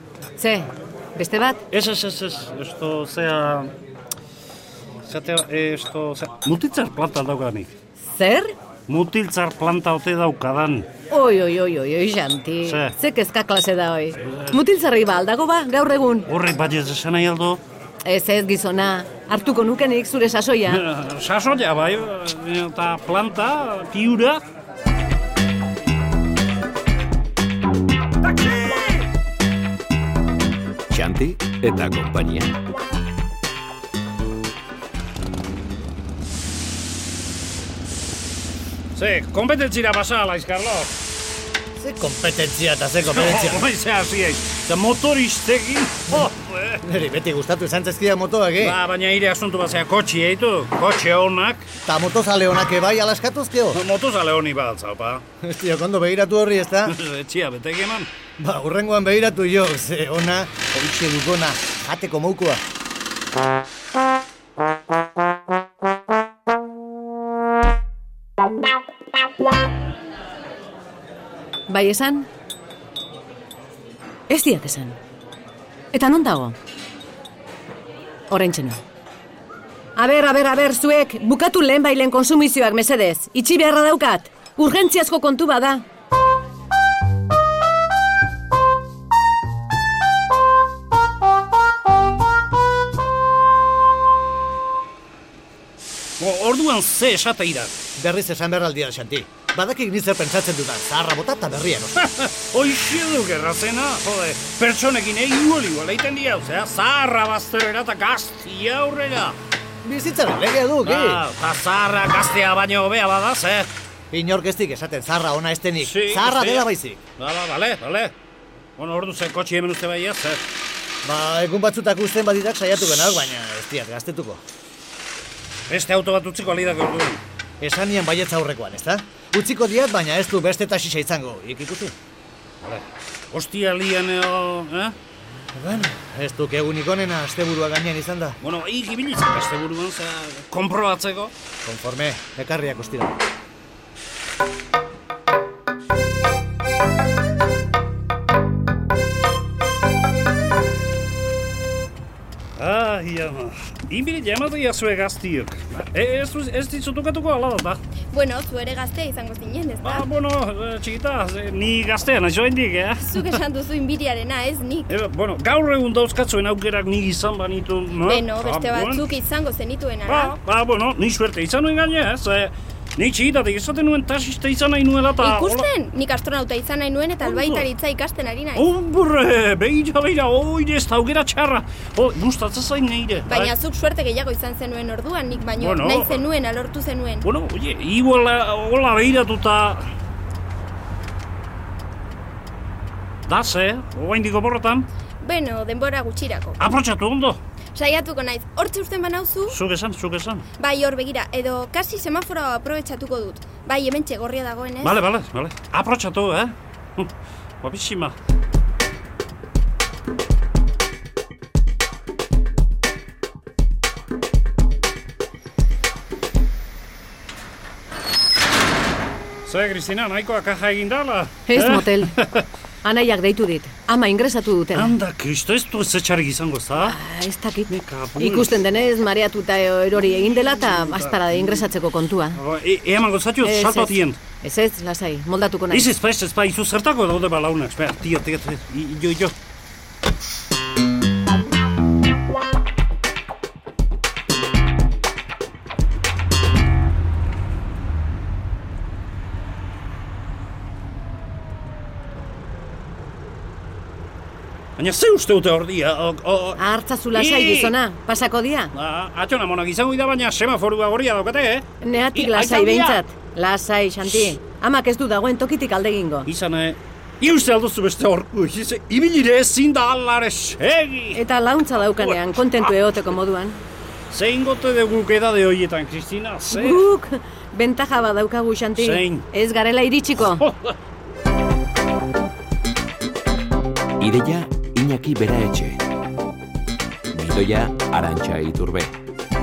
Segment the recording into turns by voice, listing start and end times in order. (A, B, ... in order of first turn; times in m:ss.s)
0:00.4-0:01.6 A
0:01.7-0:03.7 B
0:05.1-0:07.7 B
0:08.1-0:08.5 A
0:08.9-0:10.9 B
0:11.1-0:16.3 A
0:12.6-0:12.9 B
0:14.3-0:14.6 B
0:16.3-0:17.6 B
0:18.0-0:20.8 A
0:20.7-0:24.4 B
0:30.9-0:32.6 C
0:39.0-0:40.9 B
0:41.8-0:43.7 D
0:43.0-0:46.8 B
0:46.1-0:48.8 D
0:48.6-0:51.7 B
0:51.8-0:53.8 D
0:53.7-0:55.2 B
0:55.4-0:57.0 D
0:56.9-0:58.1 B
0:58.4-1:02.6 D
1:11.7-1:12.3 A
1:14.3-1:15.0 A
1:15.9-1:16.6 A
1:18.3-1:18.8 A
1:20.0-1:25.8 A
1:36.2-1:37.7 B
1:38.0-1:42.1 D
1:42.0-1:49.4 B
1:49.8-1:51.2 D
1:50.8-1:53.7 B
1:54.1-1:57.0 D
1:55.8-1:58.1 B
1:58.8-2:00.5 B
2:01.0-2:04.4 D
2:05.7-2:07.2 B
2:07.6-2:12.0 D
2:12.6-2:15.0 B
2:15.6-2:18.4 D
2:18.4-2:21.3 B
2:21.6-2:23.2 D
2:32.6-2:37.8 B
2:38.1-2:40.1 E
2:39.8-2:43.4 B
2:43.0-2:44.9 E
2:44.9-2:49.2 B
2:48.0-2:50.4 E
2:50.1-2:55.7 B
2:55.2-2:58.7 E
2:57.2-2:57.7 B
2:58.6-3:03.5 B
3:03.3-3:07.3 E
3:05.6-3:06.3 B
3:07.2-3:09.9 B
3:13.3-3:14.9 B
3:15.2-3:16.6 E
3:16.6-3:17.4 B
3:17.8-3:19.6 E
3:19.5-3:20.4 B
3:20.6-3:25.0 E
3:24.8-3:27.1 B
3:27.6-3:28.2 B
3:39.4-3:42.5 B
3:41.5-3:42.2 A
3:42.8-3:45.0 A
3:44.7-3:47.0 B
3:46.8-3:52.4 A
3:47.7-3:48.6 B
3:50.1-3:51.6 B
3:52.3-3:54.2 B
3:53.4-3:55.9 A
3:55.7-3:59.4 B
4:14.8-4:16.6 B
4:16.6-4:18.7 A
4:17.1-4:17.8 B
4:18.8-4:23.0 B
4:21.8-4:26.3 A
4:24.0-4:24.3 B
4:26.3-4:31.2 B
4:31.1-4:33.6 A
4:34.1-4:36.8 B
4:36.5-4:40.4 A
4:38.8-4:39.3 B
4:40.2-4:40.8 B
4:44.0-4:45.8 C
4:47.1-4:49.0 C